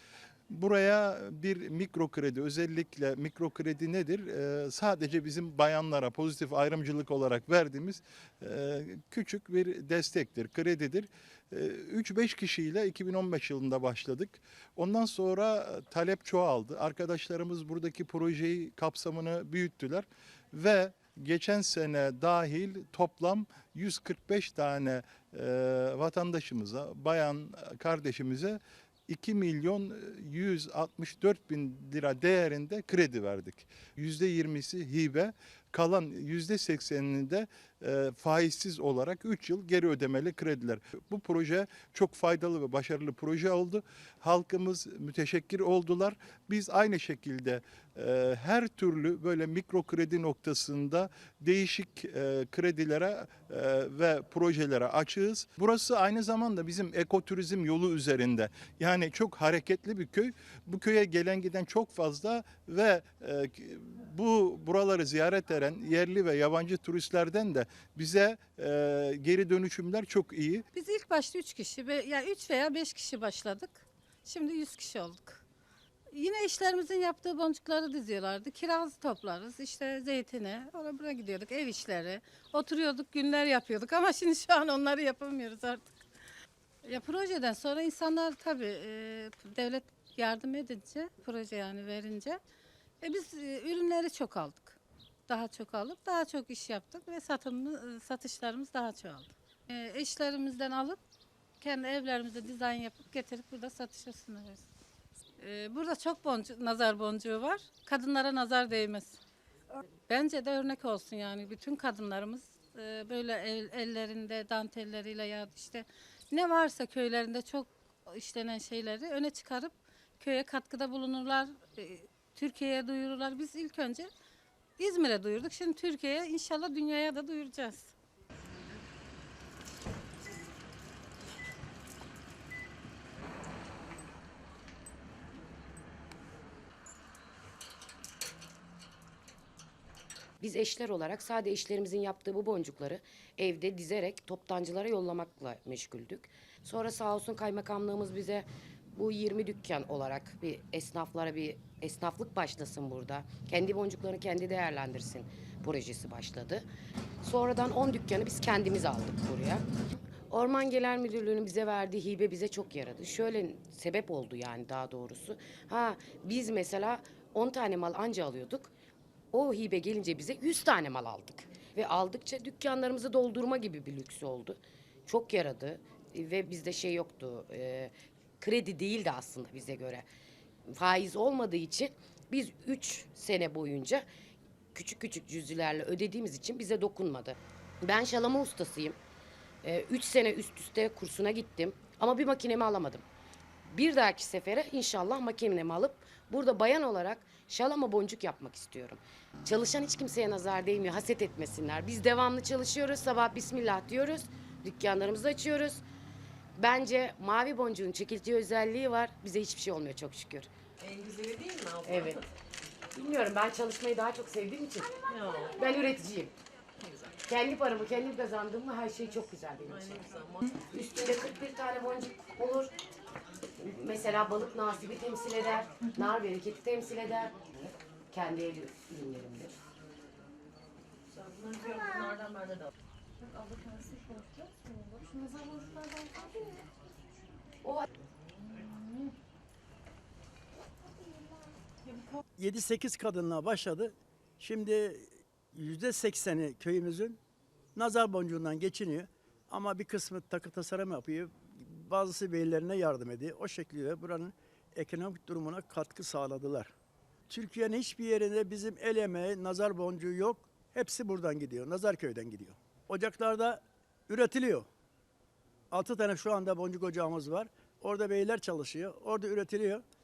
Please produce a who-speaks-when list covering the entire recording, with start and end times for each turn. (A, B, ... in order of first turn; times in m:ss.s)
0:00.5-1:10.6 A
1:10.7-1:15.4 B
1:16.1-1:26.0 B
1:26.8-1:32.4 B
1:33.0-1:41.0 B
1:41.6-1:44.7 B
1:45.4-1:49.2 B
1:50.1-2:04.1 B
2:04.8-2:07.9 B
2:20.4-2:36.6 C
2:37.2-2:39.6 C
2:40.3-2:48.7 C
2:49.3-3:00.0 C
3:00.7-3:04.0 C
3:04.7-3:09.0 C
3:09.6-3:13.0 C
3:13.6-3:25.8 C
3:26.6-3:30.5 C
3:30.8-3:32.2 D
3:31.8-3:32.2 C
3:32.9-3:34.9 C
3:35.1-3:35.5 D
3:35.4-3:36.3 C
3:37.2-3:42.7 C
3:39.7-3:40.4 D
3:43.6-3:49.5 C
3:51.1-3:52.7 D
4:02.4-4:07.2 E
4:07.7-4:16.7 E
4:17.3-4:24.7 E
4:25.7-4:29.8 E